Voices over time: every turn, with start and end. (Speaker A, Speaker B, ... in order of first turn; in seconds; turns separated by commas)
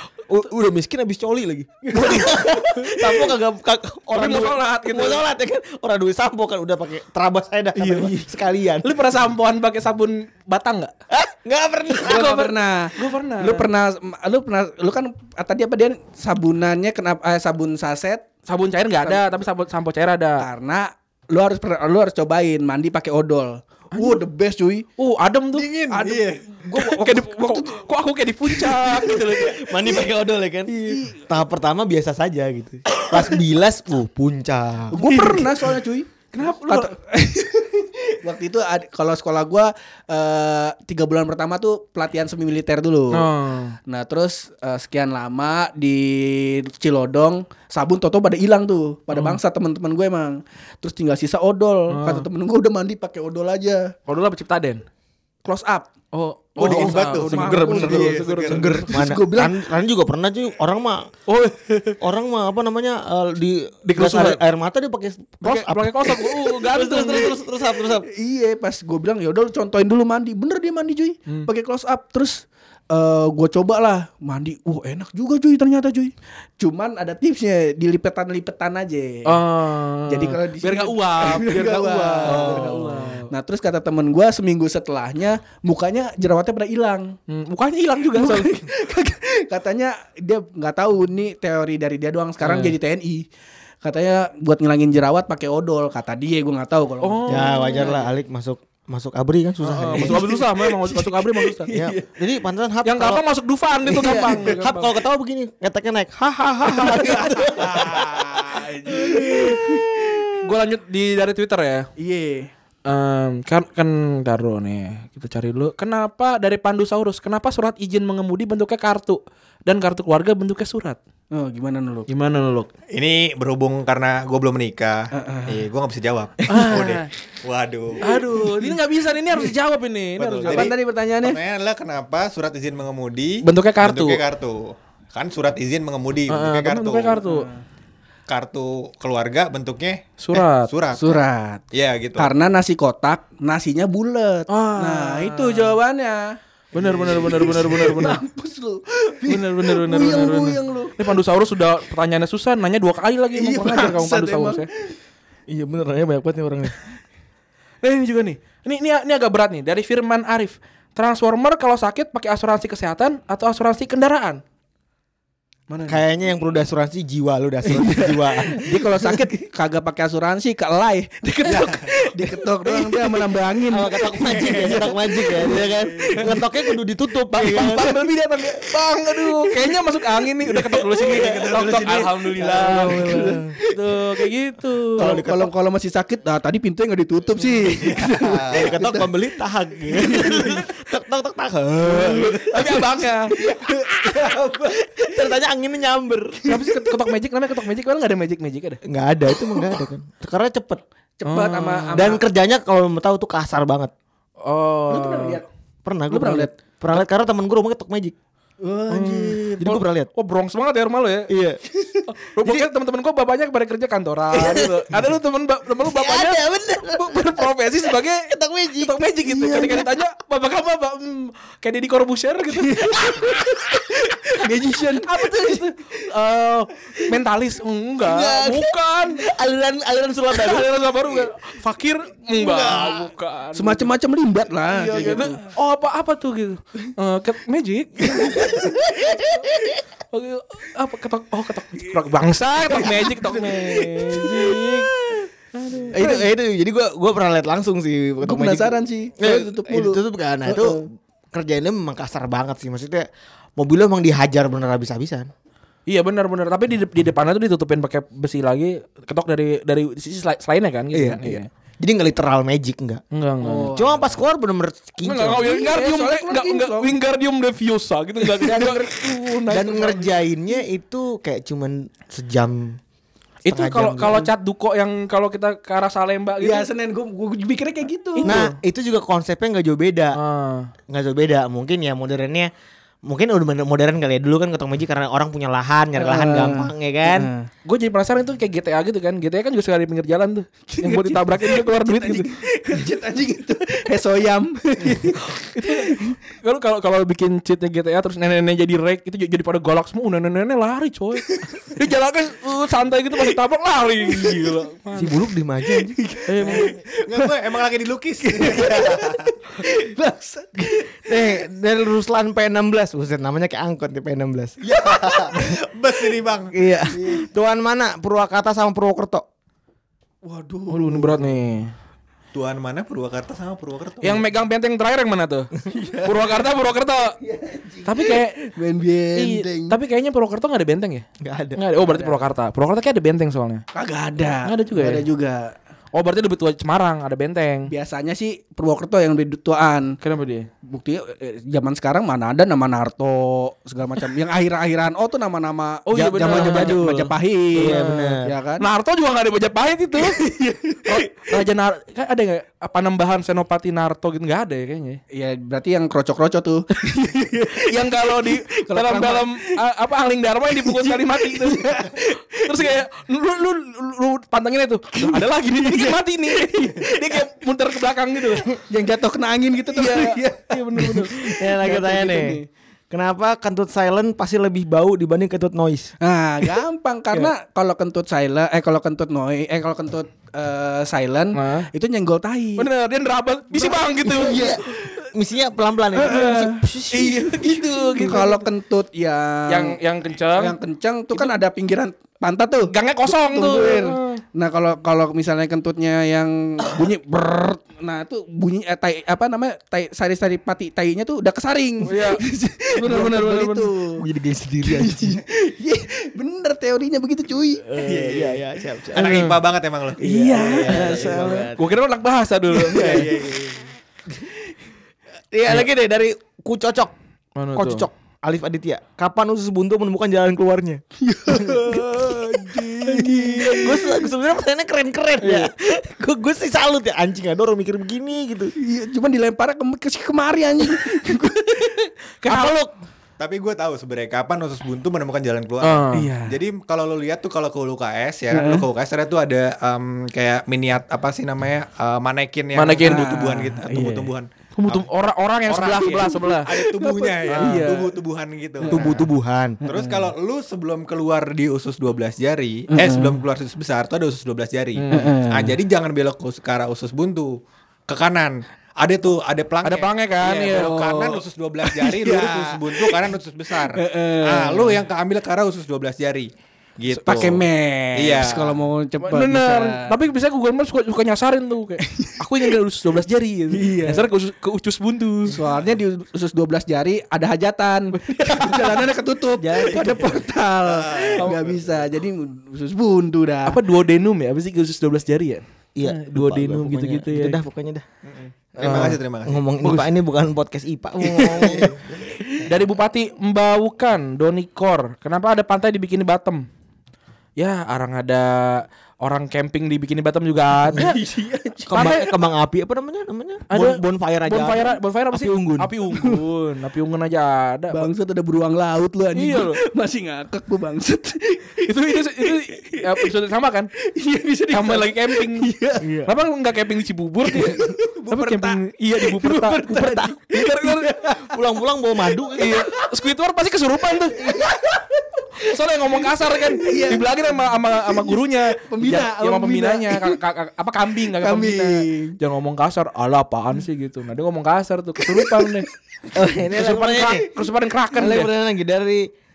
Speaker A: 0.3-8.9, Speaker B: 1.9-2.4, Speaker C: 4.1-5.2, Speaker C: 7.8-8.2, Speaker C: 8.8-10.9, Speaker A: 11.1-12.4, Speaker C: 12.0-13.7, Speaker B: 12.0-18.3, Speaker C: 18.5-20.5, Speaker B: 19.0-19.4, Speaker B: 20.4-24.9, Speaker C: 23.9-24.2, Speaker C: 25.0-25.7, Speaker D: 25.5-26.4, Speaker B: 25.9-27.8, Speaker C: 26.7-29.7, Speaker B: 28.4-29.4, Speaker A: 29.2-35.4, Speaker B: 30.7-31.2, Speaker B: 34.9-43.3, Speaker C: 35.0-35.5, Speaker C: 36.3-36.9, Speaker C: 43.1-43.8, Speaker B: 43.8-53.9, Speaker C: 49.1-49.4, Speaker C: 51.9-52.2, Speaker C: 54.1-54.8, Speaker B: 55.4-55.9, Speaker C: 56.1-58.9, Speaker B: 56.6-59.6, Speaker D: 56.6-58.8, Speaker A: 57.5-61.1, Speaker C: 61.3-62.0, Speaker A: 62.0-68.1, Speaker C: 63.9-64.4, Speaker C: 65.4-67.4, Speaker B: 68.0-79.4, Speaker C: 79.2-83.3, Speaker B: 80.1-87.1, Speaker A: 82.2-82.9, Speaker C: 87.3-88.6, Speaker B: 88.1-93.3, Speaker C: 92.4-92.8, Speaker B: 93.8-97.9, Speaker C: 97.0-98.0, Speaker A: 97.3-100.3, Speaker C: 99.6-101.7, Speaker B: 99.9-102.0, Speaker A: 101.7-103.2, Speaker C: 102.8-104.9, Speaker A: 103.8-108.2, Speaker B: 106.7-110.3, Speaker A: 109.1-109.5, Speaker C: 110.4-111.9, Speaker B: 112.0-112.5, Speaker C: 112.9-121.0, Speaker B: 121.3-122.1, Speaker C: 122.1-122.7, Speaker D: 122.9-128.0, Speaker B: 125.1-125.7, Speaker C: 126.5-127.1, Speaker C: 128.0-130.7, Speaker B: 128.1-128.8, Speaker D: 130.2-137.2, Speaker B: 130.4-131.4, Speaker C: 133.4-134.2, Speaker C: 136.3-137.5, Speaker B: 137.2-137.6, Speaker D: 138.3-141.2, Speaker C: 140.2-140.7, Speaker B: 140.9-141.7, Speaker D: 141.7-142.3, Speaker B: 142.2-151.1, Speaker C: 144.5-145.8, Speaker C: 146.7-148.2, Speaker C: 149.3-154.7, Speaker B: 153.3-154.9, Speaker A: 155.5-156.8, Speaker C: 157.8-164.4, Speaker C: 165.7-166.0, Speaker A: 165.9-169.2, Speaker B: 167.7-176.4, Speaker D: 171.5-171.8, Speaker C: 172.7-173.1, Speaker A: 173.7-177.9, Speaker C: 177.3-185.1, Speaker B: 181.0-183.4, Speaker A: 181.0-183.6, Speaker A: 185.0-185.5, Speaker B: 185.0-189.1, Speaker D: 187.8-188.8, Speaker A: 188.4-192.8, Speaker B: 189.9-190.5, Speaker C: 191.9-193.3, Speaker B: 191.9-195.1, Speaker A: 193.4-194.4, Speaker A: 194.9-196.5, Speaker B: 196.4-196.9, Speaker C: 196.4-198.8, Speaker A: 198.8-200.8, Speaker B: 201.2-202.2, Speaker C: 201.2-202.1, Speaker A: 201.9-203.9, Speaker C: 204.4-205.4, Speaker B: 204.9-205.4, Speaker A: 205.8-208.1, Speaker B: 206.1-206.5, Speaker B: 208.6-209.6, Speaker C: 208.9-211.3, Speaker A: 209.4-210.1, Speaker A: 211.3-211.6, Speaker B: 211.7-212.0, Speaker C: 212.1-223.4, Speaker A: 214.3-214.8, Speaker A: 215.8-217.4, Speaker A: 218.3-219.8, Speaker B: 222.6-225.7, Speaker C: 225.0-229.2, Speaker A: 228.0-230.7, Speaker C: 230.3-233.9, Speaker B: 232.6-232.9, Speaker B: 233.5-235.4, Speaker C: 234.7-238.7, Speaker A: 238.1-239.8, Speaker C: 240.1-244.9, Speaker B: 242.8-245.2, Speaker C: 245.5-246.0, Speaker A: 245.9-255.3, Speaker B: 245.9-246.3, Speaker B: 248.2-250.8, Speaker C: 255.9-261.5, Speaker A: 260.9-265.6, Speaker C: 263.1-263.9, Speaker B: 263.4-263.9, Speaker C: 265.0-269.9, Speaker B: 265.4-266.9, Speaker A: 268.3-272.8, Speaker B: 269.6-270.0, Speaker C: 273.4-276.7, Speaker A: 273.5-274.3, Speaker B: 276.4-278.5, Speaker C: 278.2-278.5, Speaker A: 278.2-280.2, Speaker C: 280.1-280.7, Speaker A: 280.9-282.5, Speaker A: 283.0-287.3, Speaker B: 286.0-287.5, Speaker C: 287.6-292.3, Speaker B: 290.7-296.1, Speaker C: 295.2-305.2, Speaker B: 301.2-301.5, Speaker B: 304.1-304.5, Speaker A: 304.9-306.0, Speaker B: 305.7-307.5, Speaker C: 306.2-306.8, Speaker D: 307.0-309.3, Speaker B: 308.2-311.2, Speaker A: 311.1-314.6, Speaker D: 314.6-316.5, Speaker B: 314.7-315.4, Speaker A: 316.5-319.2, Speaker B: 317.0-317.2, Speaker B: 320.2-321.2, Speaker C: 320.7-321.7, Speaker D: 322.3-324.2, Speaker C: 324.0-325.5, Speaker B: 325.7-326.4, Speaker C: 326.0-327.1, Speaker B: 327.4-329.8, Speaker C: 327.8-328.4, Speaker C: 329.1-331.0, Speaker A: 331.2-331.6, Speaker C: 331.6-333.6, Speaker B: 331.9-332.2, Speaker B: 333.7-335.5, Speaker C: 334.4-335.0, Speaker C: 335.9-337.7, Speaker B: 337.7-339.9, Speaker C: 340.0-340.5, Speaker B: 340.6-348.6, Speaker C: 345.9-350.2, Speaker A: 346.0-347.0, Speaker A: 347.5-348.3, Speaker B: 350.0-351.0, Speaker C: 350.8-355.0, Speaker B: 355.1-359.5, Speaker C: 357.3-368.6, Speaker B: 360.6-362.7, Speaker B: 365.0-366.6, Speaker B: 368.6-372.4, Speaker C: 369.7-371.2, Speaker A: 371.2-375.9, Speaker B: 376.0-382.7, Speaker C: 381.3-381.7, Speaker C: 382.6-384.5, Speaker B: 383.6-385.1, Speaker A: 384.0-387.5, Speaker B: 385.9-389.8, Speaker C: 386.9-388.4, Speaker C: 389.5-390.6, Speaker B: 390.4-404.1, Speaker C: 392.7-394.2, Speaker C: 401.8-402.2, Speaker C: 402.8-403.7, Speaker A: 404.0-405.2, Speaker B: 404.6-407.8, Speaker A: 407.8-409.3, Speaker D: 407.8-408.4, Speaker D: 408.9-411.4, Speaker C: 409.0-409.4, Speaker A: 410.0-411.7, Speaker B: 410.0-411.5, Speaker C: 411.5-413.1, Speaker D: 412.7-413.7, Speaker A: 412.7-413.1, Speaker B: 412.8-413.0, Speaker A: 415.3-416.9, Speaker C: 417.4-417.9, Speaker A: 417.5-420.8, Speaker B: 421.0-424.1, Speaker A: 421.4-422.3, Speaker C: 422.9-423.7, Speaker A: 423.4-428.5, Speaker B: 428.6-431.9, Speaker A: 432.2-432.7, Speaker D: 433.2-444.9, Speaker C: 435.6-436.1, Speaker B: 435.9-436.4, Speaker B: 438.3-438.6, Speaker C: 442.5-443.1, Speaker B: 442.8-444.1, Speaker C: 444.5-446.5, Speaker D: 445.5-449.0, Speaker B: 446.2-448.0, Speaker C: 447.3-447.7, Speaker B: 448.6-449.0, Speaker A: 448.6-449.6, Speaker B: 449.6-450.1, Speaker D: 449.6-457.3, Speaker B: 452.7-453.2, Speaker C: 454.8-455.1, Speaker B: 454.9-455.6, Speaker D: 457.9-468.5, Speaker C: 459.6-460.9, Speaker B: 460.5-464.9, Speaker B: 467.0-469.9, Speaker C: 469.0-475.4, Speaker B: 471.8-472.2, Speaker B: 473.5-474.1, Speaker B: 475.3-483.6, Speaker C: 477.9-478.8, Speaker A: 479.4-480.1, Speaker D: 480.6-481.7, Speaker C: 483.5-487.4, Speaker A: 485.8-487.8, Speaker D: 488.1-489.4, Speaker A: 488.6-492.2, Speaker C: 488.6-489.0, Speaker C: 489.6-489.9, Speaker C: 491.0-491.7, Speaker D: 491.4-491.7, Speaker C: 492.4-496.5, Speaker C: 497.4-500.9, Speaker B: 500.8-502.0, Speaker A: 501.7-505.7, Speaker C: 501.7-502.1, Speaker C: 503.5-507.9, Speaker B: 505.9-506.2, Speaker B: 507.7-513.1, Speaker C: 509.1-509.6, Speaker C: 511.6-513.7, Speaker B: 513.9-515.9, Speaker C: 514.5-515.5, Speaker A: 515.8-516.1, Speaker C: 516.0-520.9, Speaker B: 517.2-521.4, Speaker A: 519.7-522.6, Speaker C: 522.4-524.2, Speaker B: 524.2-525.2, Speaker C: 525.4-535.7, Speaker B: 526.6-530.2, Speaker B: 531.1-532.2, Speaker B: 535.1-535.5, Speaker A: 536.1-537.3, Speaker C: 536.5-538.3, Speaker A: 537.9-539.1